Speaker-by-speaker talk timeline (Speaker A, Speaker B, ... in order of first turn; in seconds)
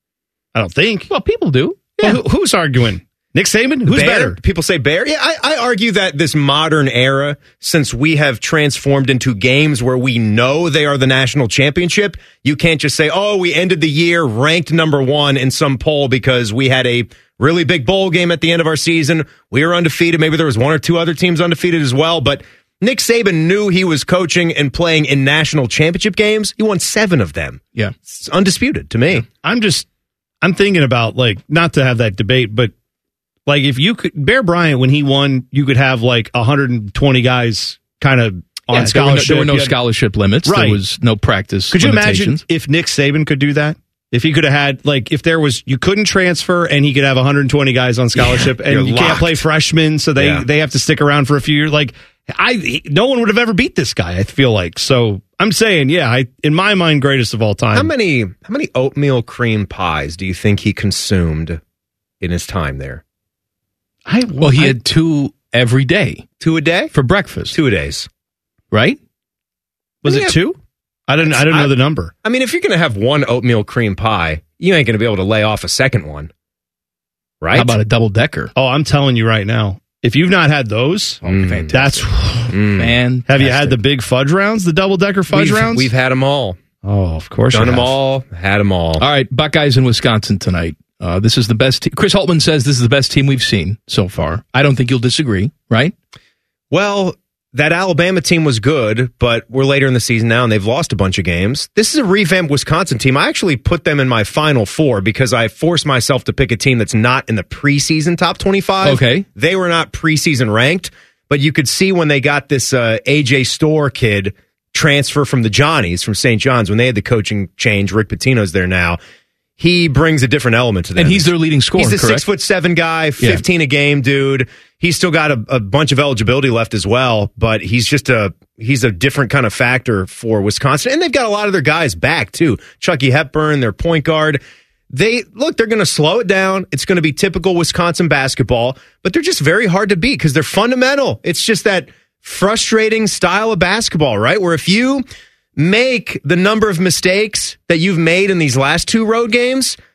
Speaker A: 0.5-1.1, 2.0-4.4, 29.4-29.9, 30.4-32.7, 33.5-39.7, 40.4-40.8, 41.7-57.9, 64.0-64.8, 70.0-70.6, 71.1-72.1, 78.5-82.5, 83.3-85.9, 86.8-87.9
Speaker B: 1.1-2.2, 38.7-42.4, 64.4-66.2, 66.9-67.5, 68.7-69.0, 77.5-78.5, 81.2-82.1, 82.7-83.8, 89.0-95.9, 108.8-109.2, 121.0-122.3
Speaker C: 3.9-29.2, 48.1-49.4, 50.2-50.5, 57.7-61.6, 62.2-63.0, 66.4-66.9, 67.5-68.1, 70.0-70.4, 71.2-71.7, 72.2-76.3, 77.4-77.8, 81.2-81.9, 82.5-83.0, 85.3-86.6, 87.5-89.0, 96.7-119.0, 119.6-145.0, 145.6-149.8